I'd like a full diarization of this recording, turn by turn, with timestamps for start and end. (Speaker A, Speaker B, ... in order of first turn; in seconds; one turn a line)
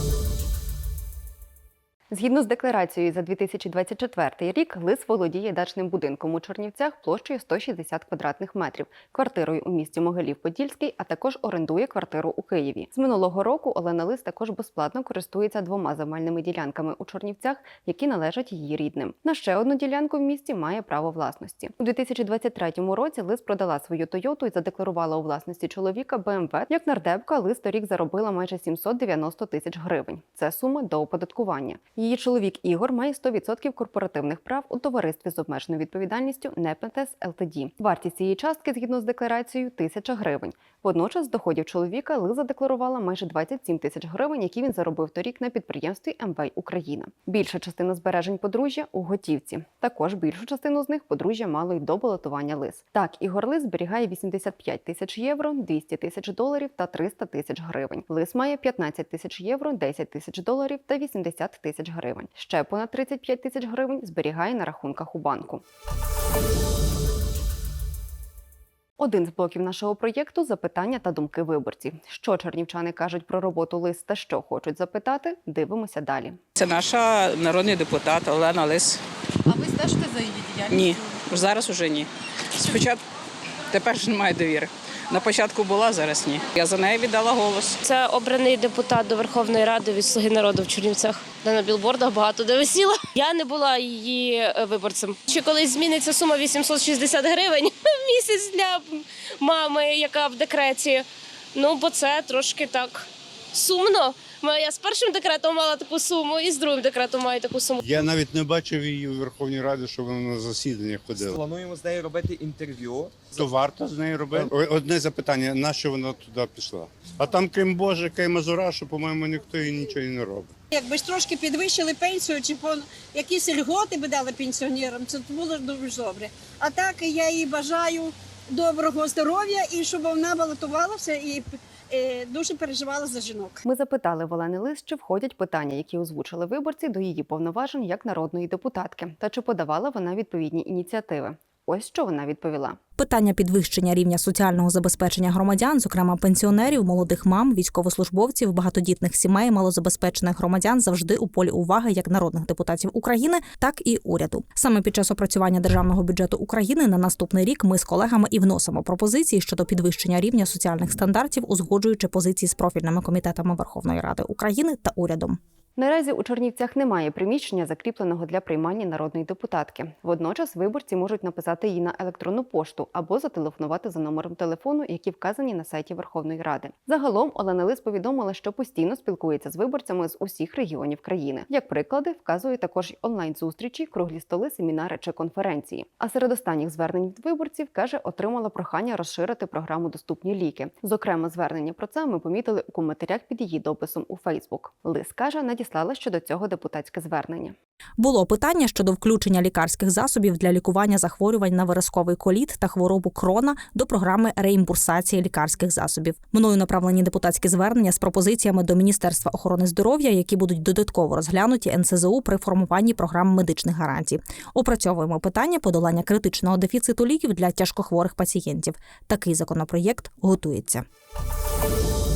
Speaker A: 2.1-65.6
Speaker A: 69.0-76.4
Speaker B: 76.5-79.0
Speaker B: 80.6-83.0
Speaker B: 83.7-87.8
Speaker C: 87.8-107.8
Speaker D: 107.8-111.3
Speaker E: 111.3-113.3
Speaker D: 113.3-120.5
Speaker F: 120.7-133.6
Speaker A: 133.6-142.8
Speaker G: 143.0-165.4
Speaker A: 165.8-197.5
Speaker G: 198.0-220.8